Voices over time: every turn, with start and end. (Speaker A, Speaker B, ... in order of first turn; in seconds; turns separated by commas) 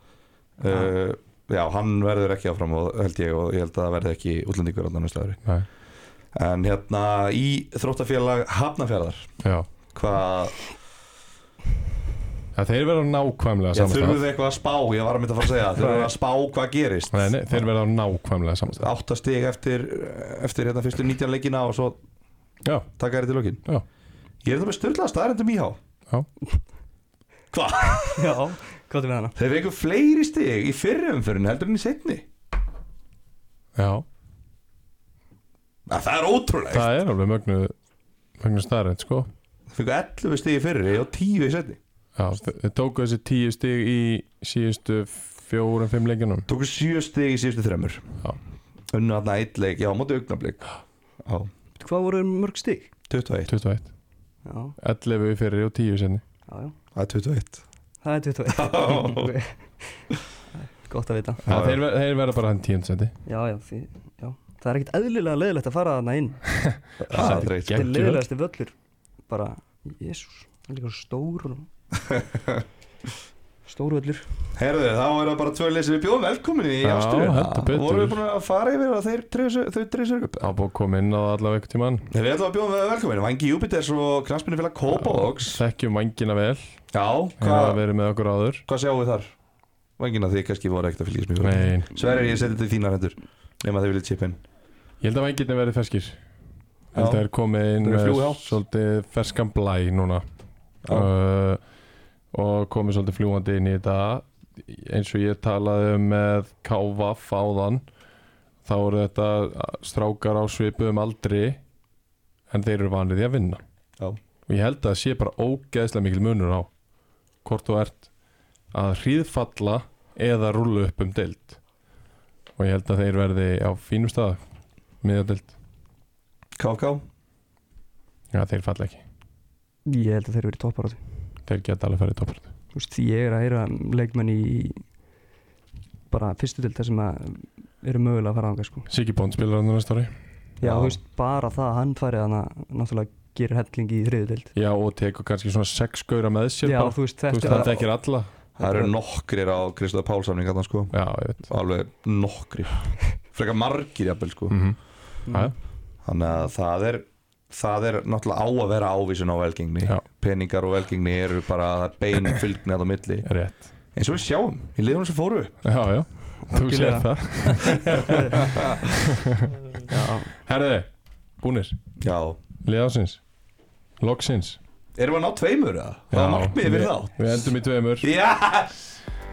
Speaker A: 0.6-5.4, Speaker B: 0.7-0.9, Speaker A: 6.3-9.3, Speaker C: 9.4-9.7, Speaker A: 9.9-10.7, Speaker C: 12.5-14.2, Speaker A: 13.7-17.7, Speaker C: 17.1-18.9, Speaker A: 18.7-22.0, Speaker C: 22.6-22.9, Speaker A: 23.0-23.6, Speaker A: 24.4-25.8, Speaker A: 27.5-28.4, Speaker B: 28.1-29.3, Speaker A: 29.4-32.2, Speaker C: 33.8-34.0, Speaker A: 35.9-36.9, Speaker C: 36.7-37.7, Speaker C: 38.4-39.3, Speaker A: 39.7-41.8, Speaker C: 42.1-46.5, Speaker A: 46.5-48.1, Speaker A: 48.9-50.7, Speaker A: 51.2-51.5, Speaker B: 51.8-52.9, Speaker A: 53.1-53.5, Speaker C: 53.5-53.9, Speaker B: 54.4-54.8, Speaker C: 54.8-56.2, Speaker B: 56.5-56.7, Speaker A: 56.9-57.6, Speaker B: 58.0-59.6, Speaker A: 58.5-59.3, Speaker B: 60.6-61.4, Speaker C: 61.4-63.1, Speaker A: 61.5-61.8, Speaker B: 63.2-66.4, Speaker C: 66.6-68.2, Speaker A: 67.0-67.9, Speaker B: 67.1-68.7, Speaker B: 69.3-71.7, Speaker A: 72.0-72.6, Speaker B: 73.7-74.2, Speaker A: 74.5-80.5, Speaker C: 76.8-78.2, Speaker C: 80.4-82.1, Speaker A: 82.1-85.6, Speaker C: 84.9-86.8, Speaker A: 86.9-87.8, Speaker C: 87.4-88.6, Speaker A: 88.7-89.3, Speaker A: 90.0-94.4, Speaker C: 91.4-91.9, Speaker C: 95.0-96.2, Speaker C: 96.9-100.2, Speaker A: 96.9-97.2, Speaker A: 97.8-98.5, Speaker A: 100.8-101.1, Speaker C: 100.8-101.6, Speaker C: 102.3-107.8, Speaker C: 108.6-111.6, Speaker C: 112.5-113.6, Speaker C: 114.5-116.7, Speaker C: 117.4-118.1, Speaker C: 118.7-121.6, Speaker C: 122.5-124.4, Speaker C: 125.0-125.5, Speaker A: 126.6-127.0, Speaker C: 128.3-129.0, Speaker B: 129.8-131.0, Speaker C: 131.4-132.5, Speaker B: 132.7-134.8, Speaker B: 136.1-138.9, Speaker C: 138.9-140.1, Speaker B: 140.6-144.5, Speaker A: 140.6-141.0, Speaker C: 144.5-148.3, Speaker B: 146.6-147.9, Speaker A: 148.6-154.6, Speaker B: 148.6-148.9, Speaker C: 150.9-151.5, Speaker C: 154.5-154.8, Speaker B: 155.2-155.5, Speaker C: 155.3-155.5, Speaker A: 156.0-163.3, Speaker C: 163.2-163.7, Speaker A: 163.9-165.6, Speaker C: 165.6-169.5, Speaker B: 166.5-168.6, Speaker A: 167.7-168.9, Speaker B: 169.9-170.3, Speaker C: 170.3-170.9, Speaker C: 171.4-171.8, Speaker A: 172.0-172.4, Speaker C: 172.6-173.2, Speaker C: 174.0-174.6, Speaker A: 175.0-177.5, Speaker C: 176.1-178.1, Speaker A: 178.0-178.9